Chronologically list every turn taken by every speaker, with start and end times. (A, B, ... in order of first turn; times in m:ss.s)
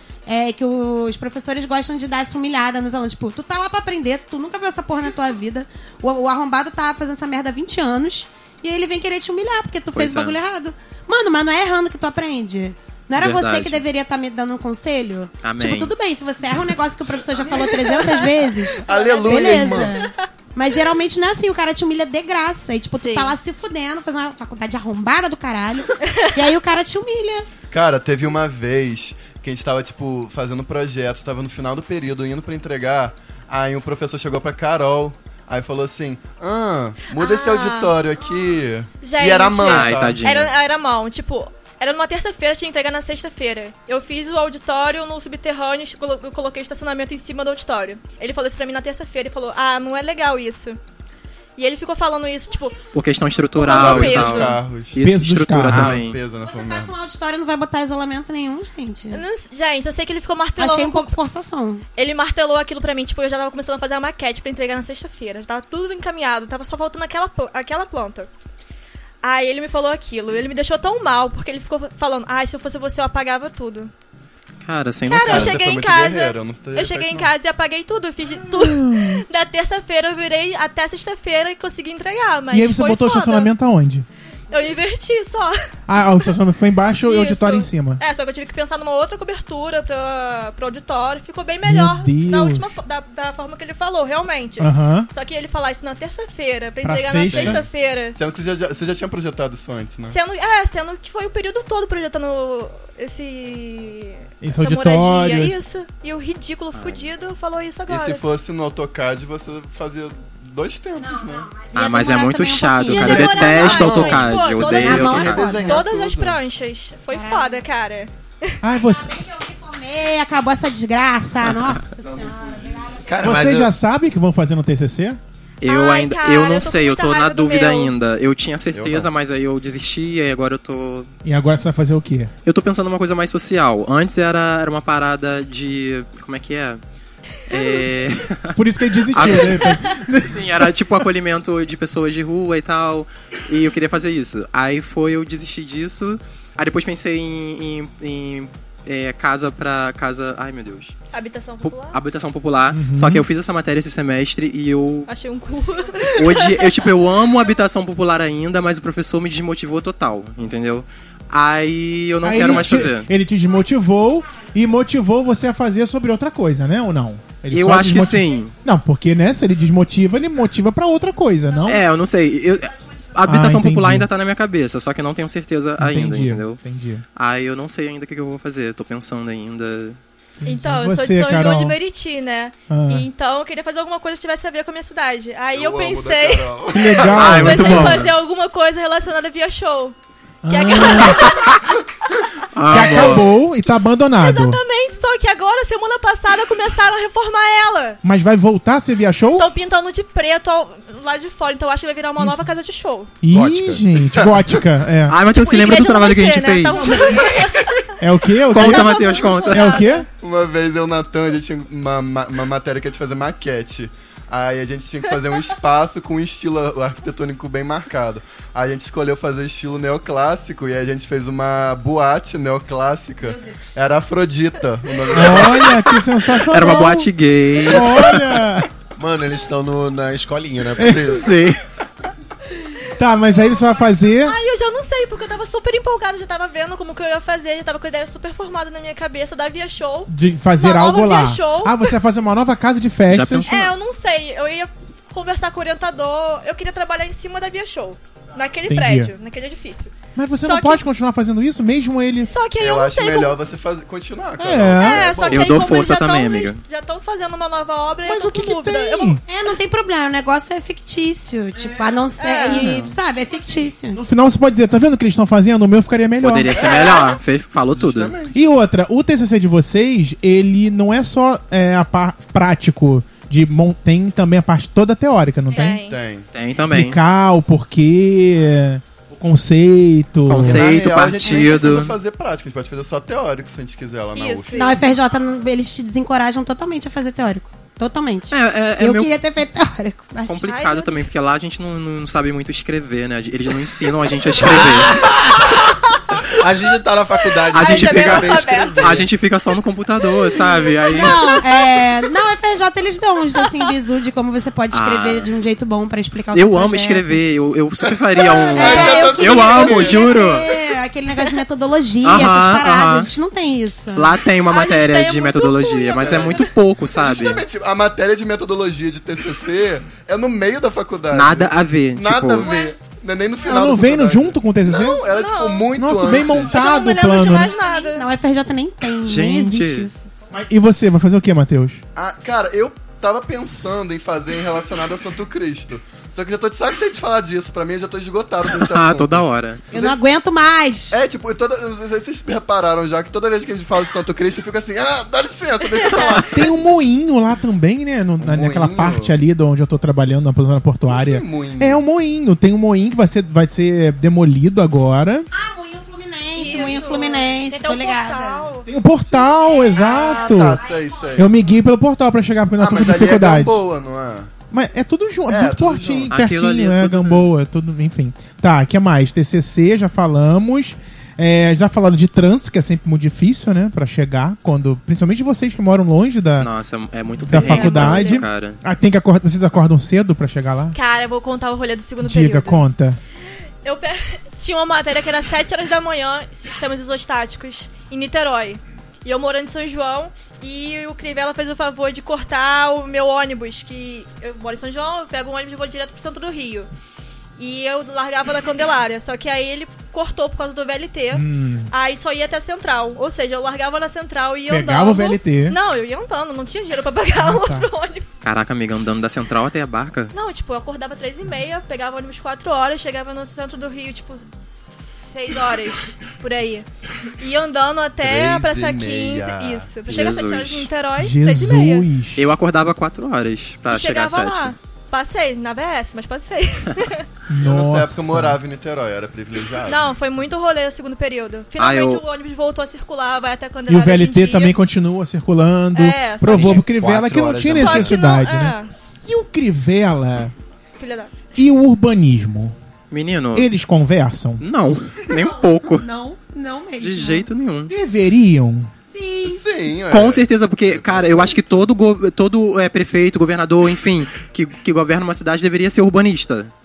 0:00.3-0:27.5 A
0:09.9-0:10.3 B
0:13.2-0:13.8 B
0:15.4-0:15.9 B
0:17.6-0:20.3 C
0:18.8-0:19.9 D
0:23.0-0:23.4 C
0:27.7-0:40.2 D
0:37.2-0:37.9 C
0:39.0-0:50.8 C
0:39.6-0:40.5 B
0:51.6-0:52.8 C
0:52.9-0:56.2 B
0:53.5-0:54.6 C
0:53.6-0:55.0 D
0:55.0-0:56.0 E
0:55.6-0:56.9 D
0:56.4-0:59.2 A
0:59.1-1:01.1 C
1:00.6-1:01.8 A
1:02.0-1:08.3 C
1:09.2-1:13.9 C
1:14.6-1:15.6 B
1:15.1-1:23.5 C
1:15.2-1:17.3 D
1:18.5-1:19.2 E
1:22.5-1:24.0 E
1:24.5-1:25.5 C
1:25.9-1:28.0 E
1:27.0-1:38.2 C
1:31.6-1:32.7 E
1:34.6-1:35.1 E
1:36.8-1:37.6 E
1:37.2-1:40.2 D
1:40.0-1:48.3 C
1:44.4-1:45.6 E
1:46.7-1:47.1 B
1:47.9-1:51.5 D
1:51.0-1:55.8 A
1:51.7-1:55.6 B
1:52.9-1:58.6 C
1:53.8-1:56.4 D
1:57.1-1:57.6 A
1:58.6-1:59.1 E
1:59.0-2:03.2 A
2:01.5-2:01.7 B
2:02.9-2:03.7 F
2:03.2-2:05.2 E
2:05.6-2:11.1 B
2:05.6-2:07.9 C
2:08.7-2:09.1 D
2:11.2-2:12.3 E
2:12.4-2:16.8 B
2:17.5-2:30.9 B
2:17.5-2:17.8 C
2:18.5-2:20.8 E
2:19.6-2:19.9 C
2:31.1-2:32.0 C
2:31.6-2:35.1 B
2:32.7-2:33.3 E
2:35.1-2:36.7 C
2:36.1-2:43.1 B
2:42.2-2:51.8 E
2:47.5-2:48.5 B
2:51.7-2:56.6 B
2:53.2-2:54.1 E
2:55.8-2:57.0 E
2:57.2-3:00.0 B
3:00.4-3:01.8 E
3:00.5-3:09.9 C
3:02.7-3:03.1 E
3:05.5-3:07.3 D
3:06.7-3:08.1 E
3:07.1-3:08.1 B
3:10.4-3:11.3 E
3:10.5-3:11.5 C
3:11.2-3:11.6 B
3:12.5-3:13.3 B
3:12.7-3:14.6 E
3:12.8-3:13.0 D
3:14.2-3:18.0 C
3:18.0-3:19.5 E
3:19.3-3:23.1 C
3:22.2-3:22.5 E
3:23.2-3:25.2 E
3:23.3-3:23.8 F
3:25.1-3:27.0 B
3:25.3-3:30.1 C
3:28.0-3:30.0 E
3:28.5-3:29.9 B
3:30.2-3:45.8 D
3:45.1-3:48.6 E
3:46.5-3:48.5 B
3:49.0-3:51.4 F
3:50.8-3:51.2 E
3:51.0-3:51.6 B
3:52.9-3:54.4 E
3:54.2-4:01.9 C
4:00.1-4:03.5 E
4:03.1-4:03.7 B
4:03.4-4:10.8 C
4:08.7-4:09.1 E
4:10.2-4:12.3 E
4:12.2-4:13.4 C
4:12.6-4:15.8 D
4:14.4-4:15.2 E
4:14.7-4:19.2 C
4:15.3-4:16.6 B
4:18.0-4:19.2 E
4:19.2-4:24.0 A
4:22.2-4:22.7 C
4:22.6-4:22.9 B
4:23.9-4:26.6 E
4:26.2-4:28.1 B
4:26.5-4:27.2 D
4:27.7-4:28.4 D
4:28.3-4:35.8 E
4:35.5-4:36.0 C
4:35.6-4:36.3 D
4:36.3-4:37.0 B
4:36.7-4:40.7 E
4:40.3-4:42.0 B
4:40.3-4:44.6 D
4:41.2-4:41.6 A
4:44.1-4:44.9 C
4:44.5-4:50.5 A
4:48.3-4:49.1 B
4:50.3-4:55.0 B
4:50.4-4:51.0 C
4:54.4-4:55.6 F
4:56.2-4:59.1 F
4:57.5-5:01.2 B
4:57.5-4:59.0 C
5:00.3-5:01.4 C
5:00.9-5:07.1 A
5:04.7-5:05.3 B
5:06.3-5:10.5 B
5:08.5-5:09.1 C
5:08.5-5:10.0 D
5:08.5-5:14.1 A
5:12.0-5:13.1 B
5:13.9-5:17.4 B
5:14.5-5:16.5 C
5:16.0-5:16.4 D
5:16.9-5:26.6 D
5:21.1-5:22.5 B
5:22.4-5:22.7 A
5:23.4-5:25.0 E
5:25.1-5:28.1 C
5:25.7-5:27.5 E
5:27.3-5:30.1 A
5:29.0-5:29.9 B
5:30.3-5:31.8 E
5:31.9-5:40.0 D
5:38.5-5:39.6 B
5:39.7-5:41.0 A
5:40.9-5:46.5 D
5:45.9-5:46.2 B
5:46.2-5:55.3 E
5:48.2-5:49.1 D
5:50.9-5:51.8 D
5:55.3-5:58.4 A
5:56.3-5:58.7 C
5:58.6-6:00.6 E
5:59.4-6:01.2 A
5:59.7-6:01.4 D
6:01.1-6:03.6 E
6:02.6-6:04.3 D
6:04.5-6:16.5 E
6:05.3-6:06.1 D
6:06.1-6:07.3 B
6:16.4-6:18.6 B
6:17.2-6:20.8 E
6:17.3-6:18.2 C
6:20.7-6:22.6 C
6:22.0-6:23.0 E
6:23.6-6:36.7 C
6:37.4-6:48.1 C
6:41.1-6:41.7 E
6:44.5-6:45.6 E
6:47.2-6:47.7 E
6:48.2-6:50.1 B
6:50.1-6:56.6 C
6:57.2-7:01.9 C
6:58.0-6:59.7 D
6:59.9-7:00.7 B
7:01.0-7:02.3 E
7:02.1-7:04.6 B
7:03.7-7:07.0 C
7:07.3-7:08.4 E
7:07.4-7:09.8 D
7:09.6-7:14.6 C
7:11.6-7:12.0 B
7:13.7-7:20.3 E
7:15.7-7:16.6 C
7:16.2-7:18.0 F
7:17.6-7:18.7 C
7:20.8-7:21.1 C
7:21.4-7:22.5 E
7:22.9-7:23.5 B
7:23.3-7:24.4 E
7:24.4-7:25.8 B
7:25.1-7:27.3 A
7:26.8-7:27.7 B
7:27.7-7:28.7 E
7:28.9-7:29.4 A
7:29.2-7:31.4 D
7:29.9-7:36.5 B